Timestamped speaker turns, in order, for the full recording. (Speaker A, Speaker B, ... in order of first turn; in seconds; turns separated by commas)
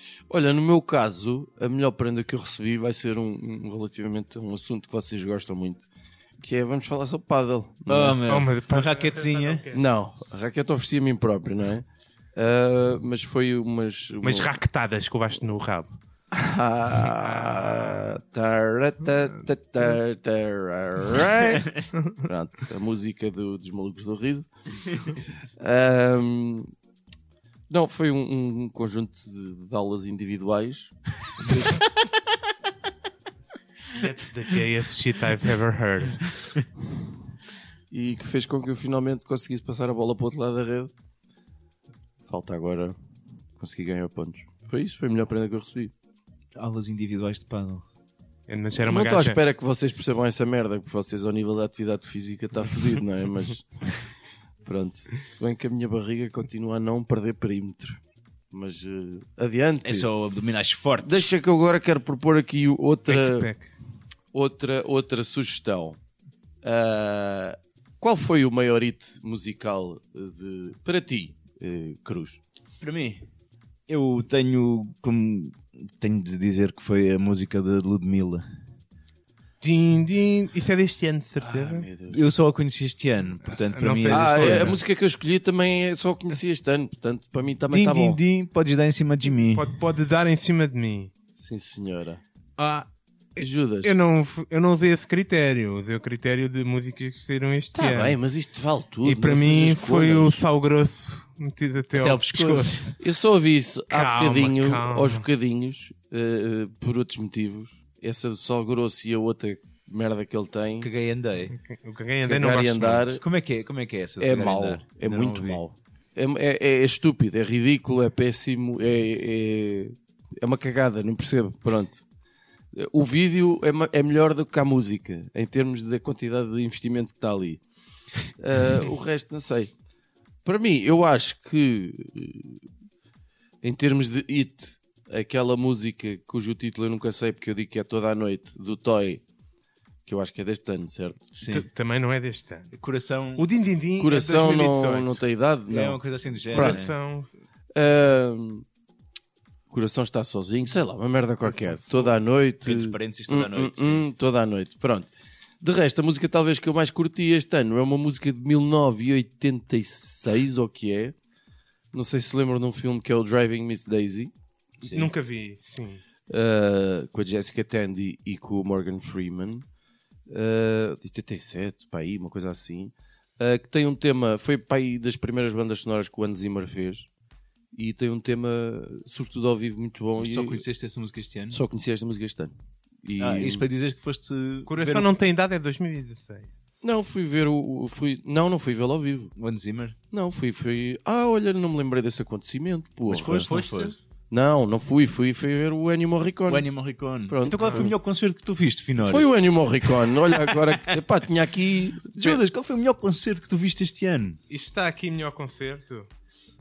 Speaker A: 0.3-5.9, Speaker A: 6.4-8.2, Speaker B: 7.9-9.7, Speaker C: 8.2-9.8, Speaker A: 9.7-14.5, Speaker C: 14.2-16.0, Speaker A: 16.3-26.7, Speaker C: 17.0-18.2, Speaker B: 21.6-21.9, Speaker A: 27.7-31.8, Speaker C: 33.9-36.5, Speaker A: 37.9-40.9, Speaker A: 42.2-43.0, Speaker A: 43.6-45.9, Speaker B: 46.5-47.9, Speaker C: 48.5-49.4, Speaker A: 48.8-54.1, Speaker A: 54.6-60.1, Speaker B: 59.8-61.2, Speaker A: 61.0-63.5, Speaker C: 63.1-63.7, Speaker A: 64.3-66.0, Speaker A: 66.6-72.4, Speaker B: 72.8-73.3, Speaker B: 73.9-78.5, Speaker C: 79.6-81.9, Speaker A: 81.4-82.2, Speaker B: 82.1-84.8, Speaker C: 83.5-84.8, Speaker A: 84.1-88.2, Speaker B: 87.7-89.7, Speaker C: 89.3-91.1, Speaker A: 91.4-92.2, Speaker C: 92.6-98.2, Speaker A: 93.4-93.9, Speaker A: 97.8-100.4, Speaker C: 99.0-103.0, Speaker B: 101.9-102.9, Speaker A: 103.0-110.9, Speaker C: 103.9-105.2, Speaker B: 110.8-111.5, Speaker C: 111.5-113.1, Speaker A: 112.2-113.2, Speaker B: 113.2-115.6, Speaker A: 114.2-122.0, Speaker A: 122.7-127.6, Speaker A: 128.3-129.7, Speaker A: 130.4-132.7, Speaker A: 133.6-139.2, Speaker A: 140.1-141.2, Speaker B: 141.3-141.7, Speaker C: 141.5-142.7, Speaker B: 142.7-143.5, Speaker C: 143.4-145.2, Speaker A: 144.0-146.0, Speaker B: 145.7-146.9, Speaker C: 146.5-147.3, Speaker A: 146.5-146.8, Speaker A: 147.7-148.7, Speaker A: 149.7-161.1, Speaker B: 152.6-154.1, Speaker A: 161.9-164.3, Speaker B: 164.8-165.1, Speaker C: 164.8-166.0, Speaker A: 166.3-169.7, Speaker A: 170.3-177.1, Speaker A: 177.7-180.6, Speaker B: 180.2-181.6, Speaker A: 181.5-183.7, Speaker B: 183.2-185.1, Speaker C: 184.7-186.5, Speaker A: 186.8-189.3, Speaker B: 189.4-190.0, Speaker A: 190.1-193.5, Speaker B: 193.1-194.0, Speaker C: 193.5-194.0, Speaker A: 194.3-196.7, Speaker B: 196.5-199.3, Speaker A: 197.2-197.9, Speaker C: 197.5-197.9, Speaker A: 199.0-202.4, Speaker B: 200.0-200.9, Speaker B: 202.1-204.4, Speaker C: 204.5-206.1